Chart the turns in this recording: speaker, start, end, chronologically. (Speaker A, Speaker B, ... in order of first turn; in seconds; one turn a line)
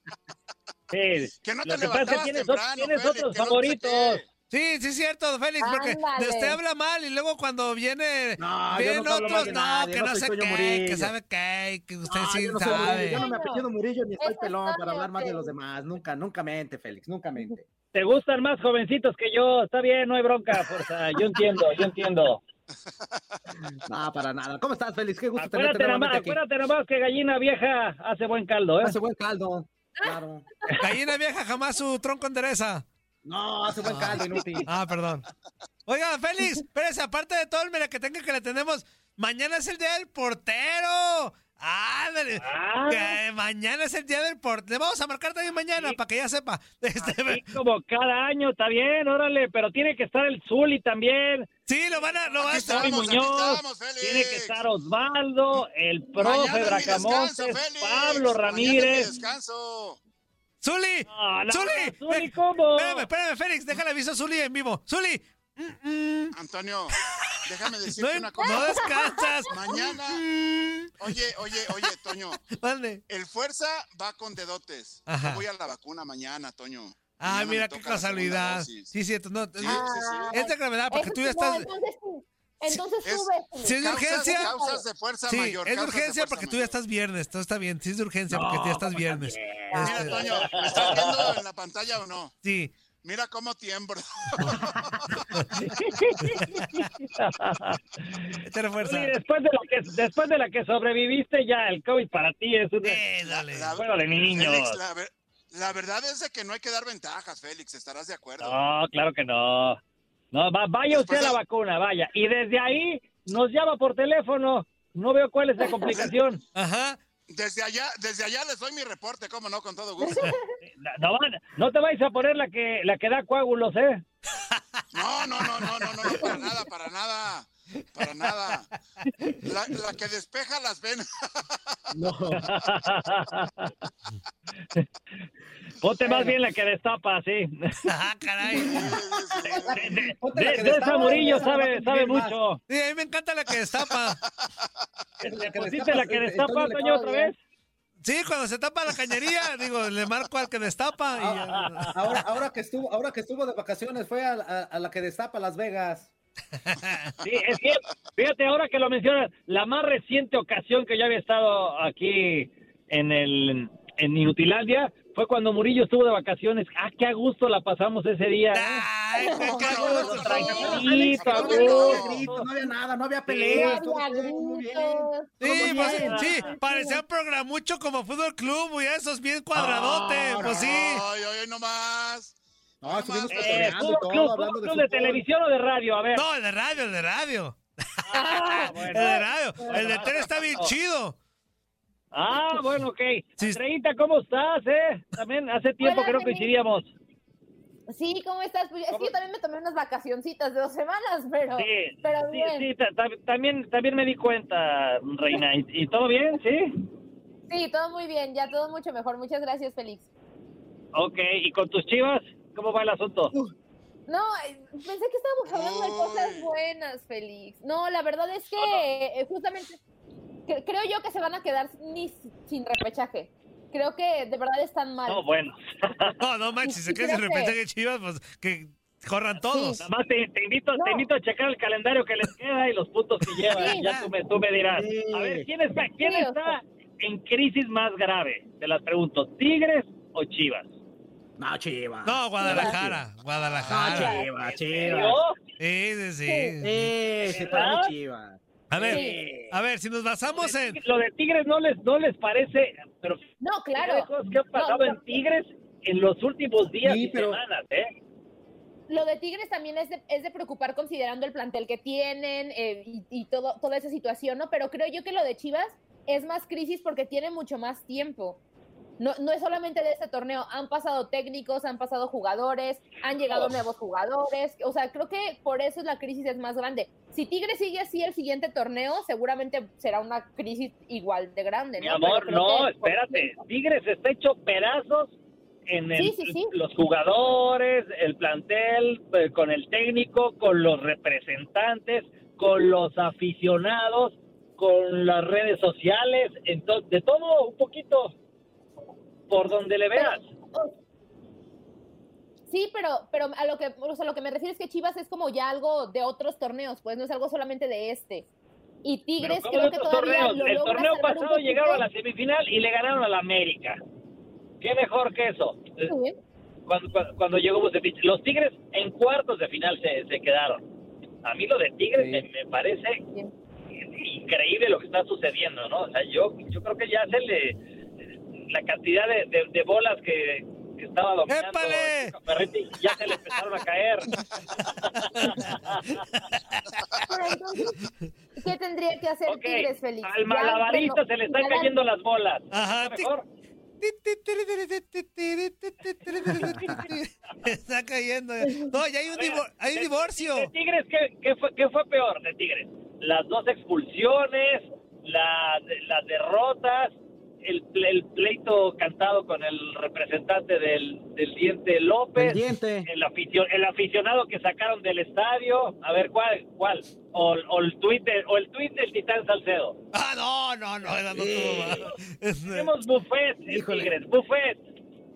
Speaker A: 0.9-4.2
Speaker B: 1.4-4.2
Speaker C: 4.5-13.2
Speaker D: 5.6-6.6
Speaker E: 8.4-11.1
Speaker A: 9.2-9.6
Speaker E: 12.0-17.6
Speaker D: 12.6-13.7
Speaker D: 14.2-15.5
Speaker A: 17.9-22.4
Speaker B: 22.9-23.4
Speaker E: 23.9-26.4
Speaker A: 25.4-29.0
Speaker E: 28.8-30.5
Speaker C: 30.8-32.8
Speaker E: 33.2-34.7
Speaker C: 33.8-35.2
Speaker C: 35.9-47.5
Speaker A: 42.4-43.2
Speaker A: 47.0-59.1
Speaker C: 51.6-53.0
Speaker B: 52.4-54.6
Speaker B: 56.2-60.0
Speaker C: 60.6-66.3
Speaker A: 61.1-63.1
Speaker B: 66.3-68.9
Speaker C: 66.9-71.1
Speaker D: 68.4-69.3
Speaker B: 69.5-70.2
Speaker B: 71.0-72.4
Speaker C: 72.5-73.0
Speaker B: 73.1-78.9
Speaker C: 75.0-75.4
Speaker C: 77.2-81.7
Speaker B: 79.6-80.4
Speaker D: 79.6-84.8
Speaker B: 83.0-86.8
Speaker C: 83.6-84.5
Speaker C: 85.3-90.2
Speaker E: 88.3-90.0
Speaker B: 89.8-92.3
Speaker A: 90.3-91.3
Speaker C: 92.4-92.7
Speaker B: 93.0-95.3
Speaker E: 94.5-94.8
Speaker A: 95.6-97.8
Speaker C: 98.4-99.1
Speaker A: 98.8-103.1
Speaker C: 102.8-103.7
Speaker B: 103.2-108.6
Speaker A: 103.8-104.8
Speaker A: 108.4-109.8
Speaker A: 110.3-116.4
Speaker B: 110.9-111.4
Speaker C: 116.5-117.0
Speaker B: 117.3-120.3
Speaker D: 120.0-120.5
Speaker A: 120.6-124.0
Speaker C: 124.5-124.8
Speaker B: 124.9-128.7
Speaker B: 129.4-131.6
Speaker E: 131.9-132.5
Speaker A: 132.3-133.7
Speaker A: 135.8-137.9
Speaker E: 136.0-136.3
Speaker C: 137.8-138.9
Speaker E: 138.5-142.3
Speaker B: 138.6-139.9
Speaker A: 139.7-142.6
Speaker D: 140.8-141.5
Speaker C: 142.7-144.2
Speaker B: 144.0-144.7
Speaker E: 145.2-146.9
Speaker A: 145.2-147.4
Speaker D: 146.8-147.3
Speaker C: 148.0-151.9
Speaker E: 151.2-156.1
Speaker A: 151.5-152.2
Speaker C: 156.7-157.1
Speaker A: 157.2-168.8
Speaker C: 168.5-170.8
Speaker D: 169.2-169.6
Speaker B: 169.4-172.2
Speaker E: 169.6-176.2
Speaker A: 169.7-172.5
Speaker D: 170.3-172.0
Speaker A: 173.3-173.7
Speaker D: 173.4-177.0
Speaker C: 175.4-181.0
Speaker A: 175.4-176.6
Speaker E: 179.5-180.8
Speaker B: 180.4-183.8
Speaker E: 182.8-185.2
Speaker A: 183.3-186.2
Speaker C: 186.1-188.0
Speaker A: 188.1-190.7
Speaker D: 188.1-190.1
Speaker C: 188.8-191.2
Speaker A: 192.1-196.9
Speaker D: 195.8-196.5
Speaker D: 197.9-202.7
Speaker A: 201.5-206.7
Speaker D: 207.5-210.1
Speaker A: 210.9-213.3
Speaker D: 214.1-219.8
Speaker B: 215.5-216.5
Speaker A: 218.6-218.8
Speaker D: 220.5-225.2
Speaker A: 225.1-226.2
Speaker C: 226.2-229.8
Speaker D: 226.6-227.5
Speaker D: 229.5-229.8
Speaker A: 229.8-240.7
Speaker D: 230.7-231.1
Speaker C: 233.5-234.1
Speaker D: 233.5-233.9
Speaker E: 234.7-235.5
Speaker D: 236.0-236.6
Speaker E: 241.4-243.0
Speaker C: 242.0-244.2
Speaker D: 242.4-242.8
Speaker E: 243.6-245.2
Speaker D: 243.8-244.3
Speaker A: 244.3-245.4
Speaker C: 245.6-246.9
Speaker D: 246.2-246.5
Speaker E: 246.6-249.6
Speaker A: 247.2-247.9
Speaker C: 248.7-250.8
Speaker D: 248.9-249.2
Speaker A: 250.3-253.2
Speaker D: 253.4-255.1
Speaker A: 253.8-257.9
Speaker E: 256.8-257.4
Speaker D: 258.9-268.4
Speaker D: 269.0-283.4
Speaker A: 273.3-273.5
Speaker A: 281.8-285.1
Speaker A: 285.7-298.1
Speaker D: 285.9-286.5
Speaker A: 299.3-300.2
Speaker D: 299.9-300.7
Speaker D: 302.5-308.2
Speaker D: 308.8-311.9
Speaker A: 309.2-313.8
Speaker A: 314.6-315.9
Speaker D: 315.8-316.1
Speaker A: 316.7-320.6
Speaker A: 321.2-323.0
Speaker A: 323.9-327.6
Speaker A: 328.4-334.1
Speaker C: 331.3-332.1
Speaker A: 334.7-336.0
Speaker C: 336.5-337.0
Speaker D: 337.0-337.8
Speaker D: 338.4-341.7
Speaker A: 339.2-343.2
Speaker C: 342.5-343.1
Speaker C: 343.8-350.5
Speaker E: 346.3-346.9
Speaker A: 346.4-346.8
Speaker A: 349.1-369.8
Speaker E: 362.1-362.9
Speaker C: 369.9-372.7
Speaker E: 371.1-371.9
Speaker A: 372.4-374.6
Speaker E: 373.5-373.9